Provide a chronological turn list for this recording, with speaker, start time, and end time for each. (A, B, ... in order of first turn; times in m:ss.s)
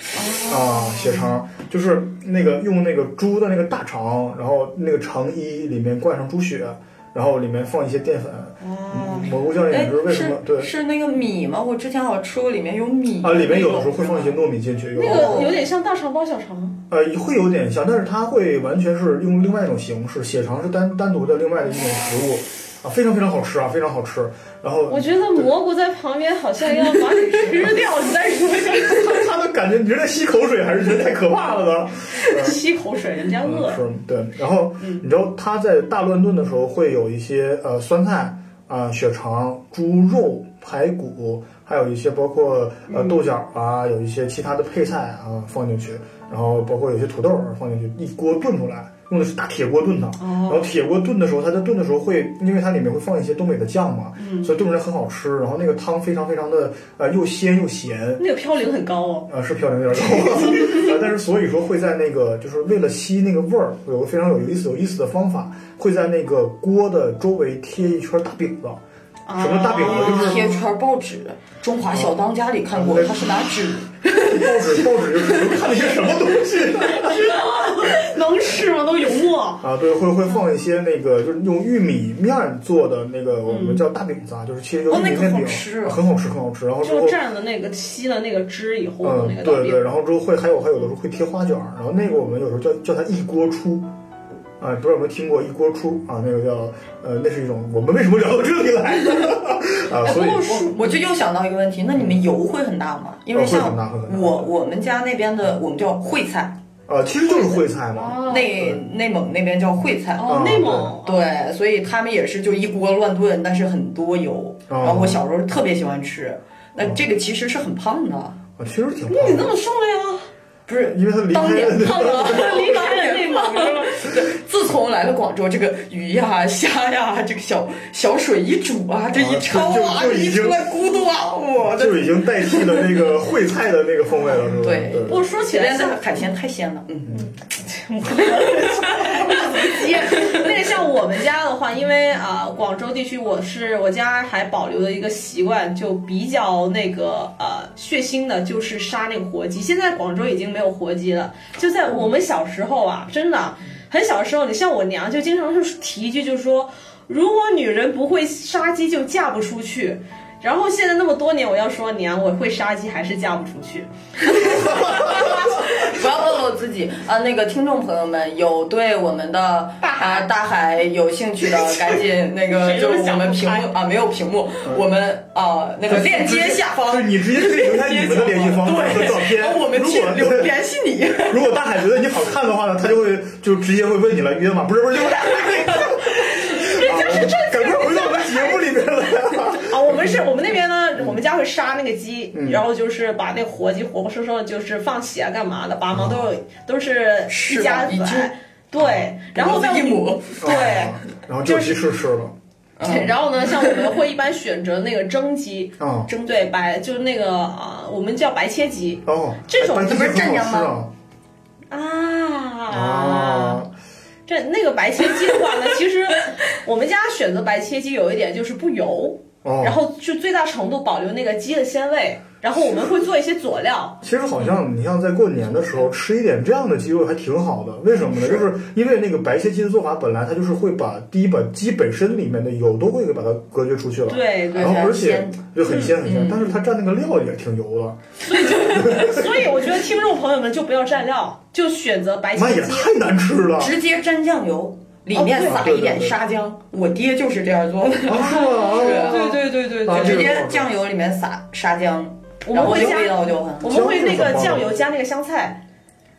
0:00.2-0:01.2 A
0:00.5-0:10.7 B
0:08.6-0:09.3 A
0:09.7-0:14.4 C
0:13.2-0:15.6 B
0:15.0-0:16.8 A
0:15.0-0:15.6 C
0:16.9-0:25.5 B
0:24.9-0:29.3 A
0:28.7-0:32.6 B
0:32.2-0:33.8 A
0:33.4-0:58.2 B
0:42.9-0:43.2 A
0:50.2-0:50.7 A
0:54.2-0:54.5 A
0:58.2-0:59.3 A
0:59.3-1:08.8 B
1:00.5-1:00.9 A
1:09.3-1:10.6 A
1:09.4-1:10.5 B
1:09.7-1:15.3 C
1:11.9-1:12.2 B
1:12.7-1:17.4 B
1:16.8-1:19.6 A
1:19.6-1:27.2 B
1:23.5-1:23.8 A
1:24.9-1:26.0 C
1:26.8-1:29.8 A
1:29.0-1:33.9 B
1:34.6-1:40.6 B
1:40.0-1:46.6 C
1:43.3-1:44.5 B
1:46.9-1:48.8 B
1:47.9-1:48.6 A
1:48.2-1:58.4 C
1:50.2-1:51.3 A
1:50.3-1:51.0 B
1:54.7-1:55.2 B
1:56.8-1:57.0 B
1:58.6-1:59.5 B
1:59.1-2:00.3 A
2:00.7-2:12.9 C
2:00.8-2:02.9 B
2:01.8-2:04.0 A
2:09.1-2:10.7 B
2:11.6-2:15.2 B
2:14.3-2:17.2 C
2:15.1-2:16.0 A
2:17.1-2:45.5 A
2:18.9-2:20.5 C
2:44.3-3:01.5 C
2:49.8-2:50.3 A
2:51.6-2:53.7 A
2:55.9-3:00.6 B
3:01.3-3:10.2 B
3:06.2-3:08.6 A
3:09.5-3:21.8 A
3:12.3-3:12.6 B
3:15.9-3:16.3 B
3:17.3-3:18.3 C
3:18.8-3:19.1 B
3:19.3-3:20.6 C
3:20.4-3:22.3 B
3:22.8-3:23.8 C
3:22.8-3:30.1 A
3:25.8-3:26.1 B
3:26.1-3:26.5 C
3:29.1-3:30.9 B
3:29.8-3:30.8 C
3:31.7-3:33.6 A
3:32.7-3:33.7 B
3:34.3-3:44.0 A
3:39.4-3:39.8 B
3:44.0-3:59.5 B
3:54.1-3:54.9 A
3:54.5-3:55.5 C
3:55.6-3:56.0 A
3:56.0-3:56.5 C
3:58.2-4:02.9 A
4:02.4-4:03.8 B
4:03.6-4:13.8 C
4:05.1-4:05.7 A
4:05.4-4:06.2 B
4:08.1-4:10.7 B
4:08.3-4:10.4 A
4:12.5-4:15.6 A
4:12.6-4:13.1 B
4:13.6-4:14.8 B